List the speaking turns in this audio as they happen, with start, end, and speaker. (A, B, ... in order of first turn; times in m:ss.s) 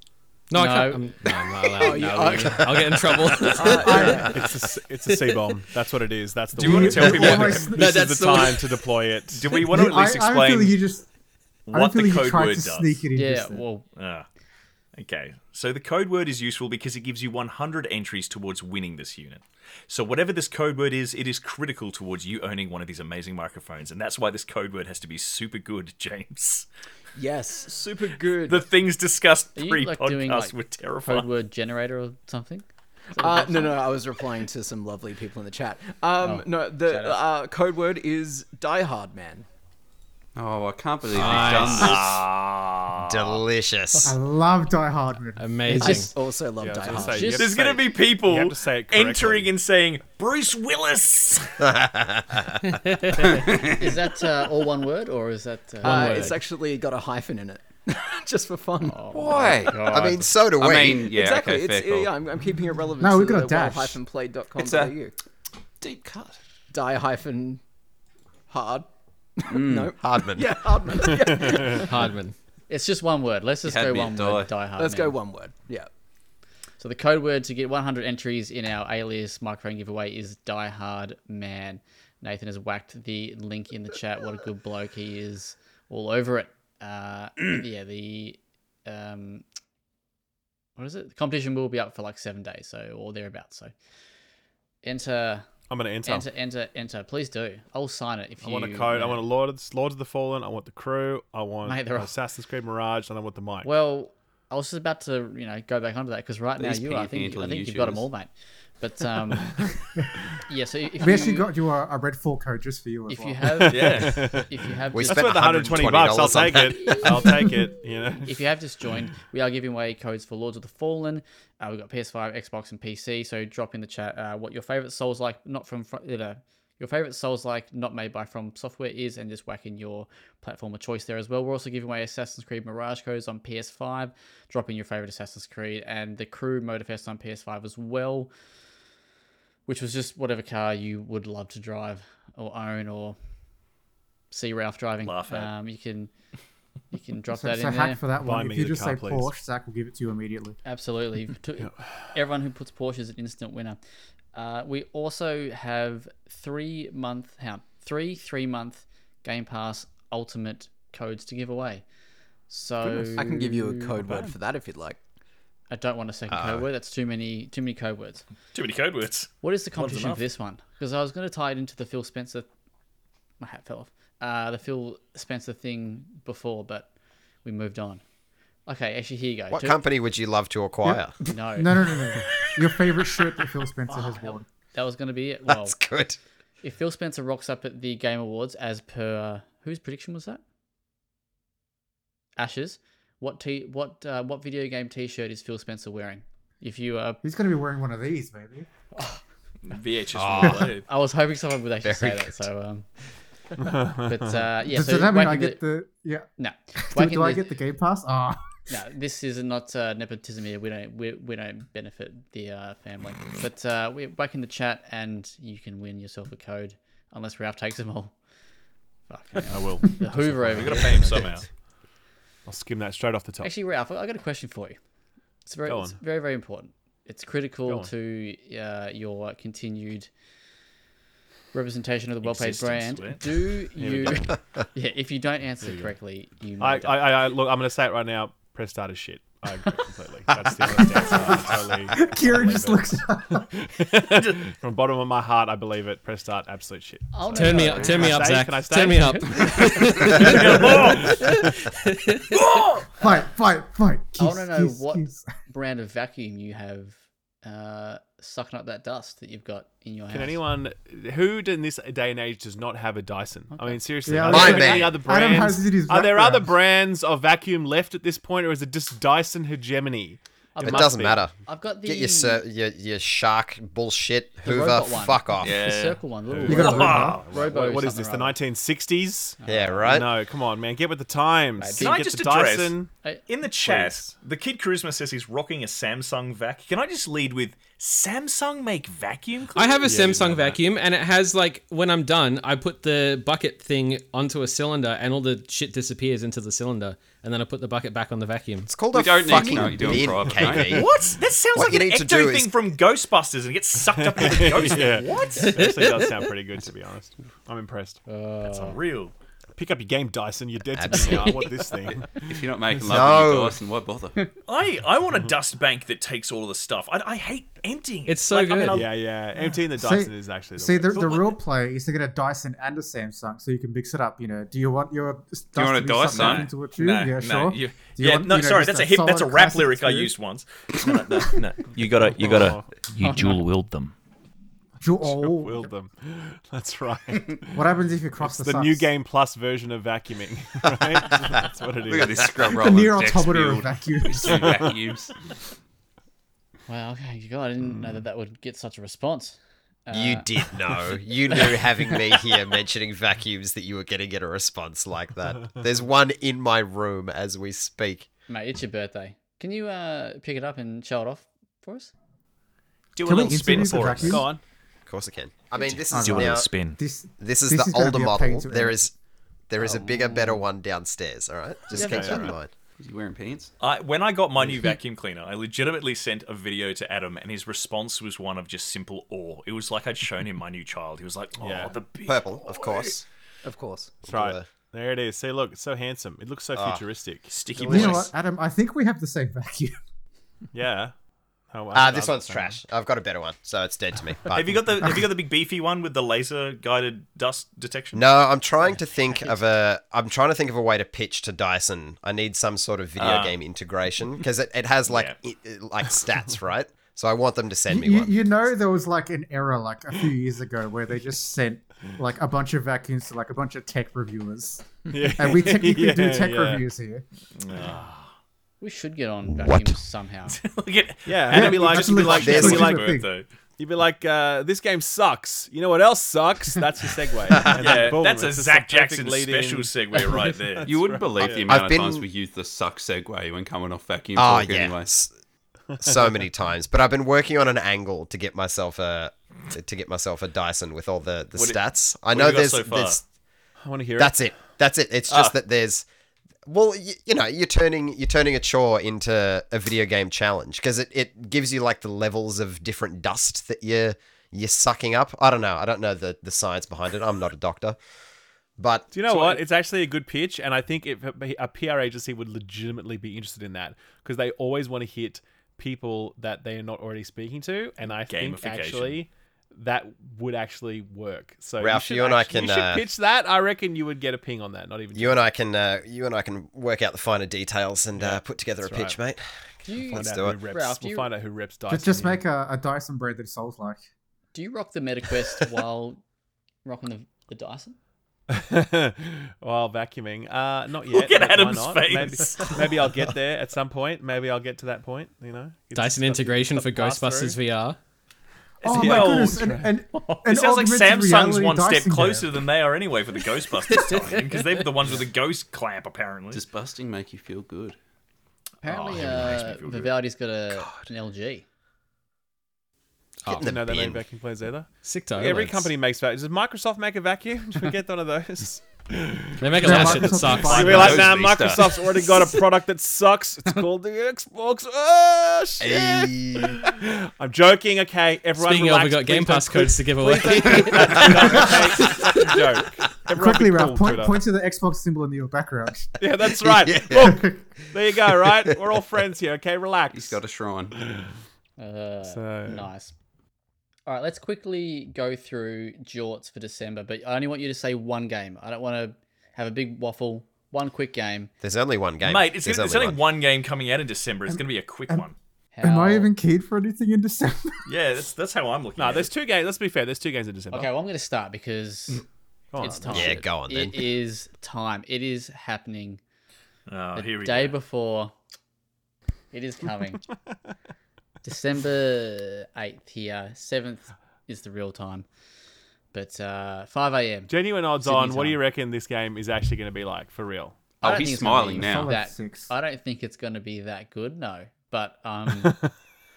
0:00.5-0:04.2 A
0:00.5-0:01.1 B
0:01.7-0:04.4 C
0:03.6-0:04.3 D
0:04.1-0:09.7 E
0:06.6-0:08.4 D
0:06.6-0:08.5 F
0:09.3-0:10.8 F
0:09.6-0:11.1 D
0:11.7-0:13.0 F
0:11.7-0:13.6 D
0:13.1-0:13.8 B
0:14.0-0:14.2 F
0:15.0-0:26.7 F
0:27.2-0:28.7 C
0:28.5-0:31.3 F
0:29.6-0:33.8 B
0:33.1-0:39.5 C
0:36.2-0:37.2 B
0:40.4-0:42.2 G
0:41.1-0:41.9 A
0:41.2-0:43.4 F
0:43.0-0:44.2 H
0:44.0-0:46.1 D
0:45.4-0:46.1 A
0:45.7-0:46.0 B
0:45.7-0:47.4 C
0:46.6-0:49.5 E
0:46.9-0:47.5 B
0:47.4-0:51.7 F
0:51.6-0:52.7 H
0:53.2-0:56.4 B
0:53.3-0:53.9 G
0:55.8-0:59.0 C
0:58.8-1:00.3 B
0:59.1-0:59.9 G
0:59.8-1:01.1 H
1:00.6-1:02.1 G
1:01.0-1:05.1 C
1:03.0-1:04.0 D
1:04.6-1:04.9 G
1:05.8-1:06.4 G
1:06.7-1:07.6 C
1:08.5-1:11.9 C
1:09.5-1:09.9 G
1:10.0-1:10.5 H
1:11.7-1:12.3 A
1:12.7-1:15.2 B
1:13.6-1:14.5 G
1:14.7-1:15.9 C
1:16.8-1:29.4 B
1:30.8-1:33.7 B
1:34.8-1:35.5 B
1:35.7-1:36.3 E
1:36.0-1:39.2 B
1:38.4-1:43.7 E
1:41.6-1:42.1 B
1:43.6-1:49.7 B
1:46.6-1:48.1 G
1:50.4-1:51.5 B
1:51.0-1:53.6 D
1:53.1-1:55.8 B
1:53.5-1:58.4 E
1:53.7-1:54.2 F
1:54.9-1:57.1 H
1:58.2-2:18.3 B
2:19.7-2:23.2 B
2:24.3-2:26.1 B
2:25.0-2:25.5 F
2:26.9-2:28.0 B
2:27.3-2:30.6 D
2:28.2-2:29.3 E
2:30.6-2:33.8 B
2:31.6-2:32.1 E
2:34.3-2:41.8 B
2:42.5-2:44.0 B
2:43.1-2:45.0 C
2:44.0-2:44.3 E
2:45.7-2:48.2 B
2:46.3-2:46.6 H
2:48.5-2:50.2 F
2:49.4-2:52.5 B
2:53.4-2:56.9 B
2:57.4-2:58.0 B
2:58.6-2:59.8 B
2:59.5-3:01.2 H
3:00.8-3:04.4 D
3:01.3-3:01.7 B
3:03.9-3:05.8 B
3:05.5-3:06.2 H
3:06.6-3:10.4 B
3:12.4-3:17.2 B
3:17.2-3:18.7 D
3:19.6-3:20.8 F
3:20.1-3:20.7 H
3:20.8-3:22.9 B
3:21.8-3:22.3 H
3:23.6-3:24.3 E
3:23.9-3:25.6 B
3:24.6-3:26.3 D
3:26.4-3:27.4 B
3:26.8-3:28.4 D
3:28.7-3:38.1 B
3:39.1-3:41.3 B
3:39.3-3:41.4 E
3:40.6-3:41.5 F
3:42.4-3:43.5 E
3:43.4-3:44.8 B
3:45.4-3:50.1 B
3:45.6-3:46.0 E
3:47.6-3:47.9 E
3:51.5-3:57.1 B
3:52.2-3:53.2 F
3:53.8-3:54.4 E
3:55.6-3:55.9 E
3:56.6-4:11.7 E
4:01.9-4:03.4 D
4:07.1-4:08.2 B
4:07.3-4:12.4 A
4:10.1-4:11.2 F
4:12.3-4:12.9 F
4:13.0-4:15.2 D
4:14.2-4:20.4 B
4:20.1-4:31.2 E
4:23.5-4:23.8 B
4:24.0-4:26.5 D
4:24.3-4:25.0 H
4:30.5-4:32.4 B
4:30.6-4:31.3 H
4:31.8-4:35.6 H
4:34.4-4:38.4 B
4:35.4-4:36.0 F
4:36.3-4:42.9 E
4:36.5-4:37.2 D
4:36.6-4:37.3 F
4:39.4-4:40.0 B
4:39.4-4:40.1 H
4:41.6-4:42.0 B
4:41.8-4:42.8 F
4:43.3-4:49.9 F
4:43.6-4:44.1 E
4:49.5-4:58.8 A
4:49.8-4:50.6 E
4:58.7-5:00.8 H
4:58.9-5:00.9 G
5:00.4-5:00.8 E
5:00.7-5:05.7 F
5:01.5-5:02.5 H
5:03.9-5:08.0 E
5:08.1-5:08.8 B
5:08.4-5:09.1 F
5:09.6-5:13.2 E
5:10.7-5:11.3 H
5:10.9-5:11.7 B
5:12.2-5:14.2 G
5:12.9-5:13.6 H
5:14.4-5:18.9 F
5:18.0-5:18.9 A
5:18.7-5:21.2 E
5:19.7-5:30.1 D
5:21.0-5:21.3 F
5:25.6-5:26.5 G
5:26.1-5:33.9 F
5:31.7-5:32.8 E
5:34.8-5:35.7 D
5:35.0-5:42.3 E
5:37.5-5:38.9 D
5:41.8-5:45.1 G
5:42.4-5:44.7 D
5:44.3-5:44.7 E
5:46.7-5:50.3 B
5:49.9-5:58.1 H
5:58.3-6:01.9 B
6:03.0-6:04.3 F
6:03.0-6:04.3 D
6:03.5-6:04.4 E
6:04.9-6:06.5 H
6:05.6-6:06.8 F
6:05.9-6:08.8 D
6:07.2-6:08.9 H
6:09.5-6:12.5 H
6:11.7-6:12.3 B
6:11.7-6:12.3 E
6:12.8-6:13.5 G
6:13.6-6:23.0 F
6:21.4-6:21.8 E
6:22.0-6:23.0 H
6:23.4-6:24.0 C
6:24.0-6:27.4 E
6:24.0-6:24.4 H
6:26.5-6:26.8 H
6:27.3-6:28.1 F
6:27.5-6:28.1 H
6:27.6-6:29.8 D
6:30.5-6:30.9 E
6:31.5-6:32.6 E
6:31.7-6:34.7 H
6:34.3-6:38.1 F
6:37.9-6:48.2 H
6:43.0-6:43.4 F
6:44.9-6:45.2 F
6:47.7-6:57.0 D
6:54.9-6:56.6 E
6:57.4-6:58.1 F
6:58.6-7:00.4 B
7:00.3-7:03.3 F
7:01.0-7:03.0 E
7:01.3-7:03.1 D
7:02.2-7:02.7 H
7:03.6-7:11.6 E
7:07.4-7:10.7 F
7:10.6-7:14.9 G
7:11.5-7:12.0 H
7:14.2-7:15.1 H
7:15.8-7:23.0 H
7:21.4-7:23.0 F
7:23.6-7:24.3 E
7:24.0-7:25.9 H
7:25.1-7:25.3 F
7:26.4-7:37.8 H
7:38.6-7:38.9 H
7:38.9-7:55.2 E
7:39.1-7:39.4 F
7:48.1-7:49.0 F
7:51.6-7:52.8 H
7:54.9-7:59.2 H
7:58.0-7:59.0 E
7:59.6-8:01.1 B
7:59.8-8:02.2 E
7:59.9-8:00.4 H
8:01.7-8:03.8 D
8:04.3-8:06.0 B
8:06.6-8:07.8 B
8:08.3-8:17.4 E
8:10.9-8:12.6 F
8:15.7-8:17.8 A
8:18.6-8:22.3 D
8:18.6-8:26.4 F
8:18.7-8:19.7 E
8:26.3-8:27.8 G
8:28.6-8:31.4 B
8:28.6-8:29.9 F
8:33.2-8:33.5 A
8:33.3-8:34.0 H
8:33.3-8:54.2 E
8:34.8-8:35.7 A
8:39.4-8:40.9 A
8:39.6-8:41.2 D
8:40.5-8:42.0 G
8:45.6-8:46.6 H
8:48.3-8:51.9 A
8:53.1-8:56.2 D
8:56.0-9:00.2 E
8:56.5-8:57.2 H
8:56.9-8:57.4 D
8:59.9-9:00.8 G
9:00.8-9:01.1 E
9:01.6-9:02.9 B
9:02.0-9:02.7 E
9:03.9-9:11.3 B
9:11.4-9:13.0 H
9:12.0-9:15.2 F
9:14.3-9:15.0 D
9:15.5-9:16.1 B
9:15.6-9:17.6 D
9:17.6-9:19.1 F
9:18.8-9:20.7 E
9:20.5-9:22.0 B
9:22.5-9:23.2 E
9:22.6-9:26.0 B
9:22.9-9:23.8 H
9:26.7-9:27.6 F
9:26.9-9:28.1 B
9:29.3-9:30.0 B
9:31.2-9:35.0 B
9:35.9-9:38.4 B
9:37.3-9:40.8 E
9:40.8-9:41.9 G
9:40.8-9:45.6 B
9:41.5-9:42.5 D
9:45.4-9:45.7 E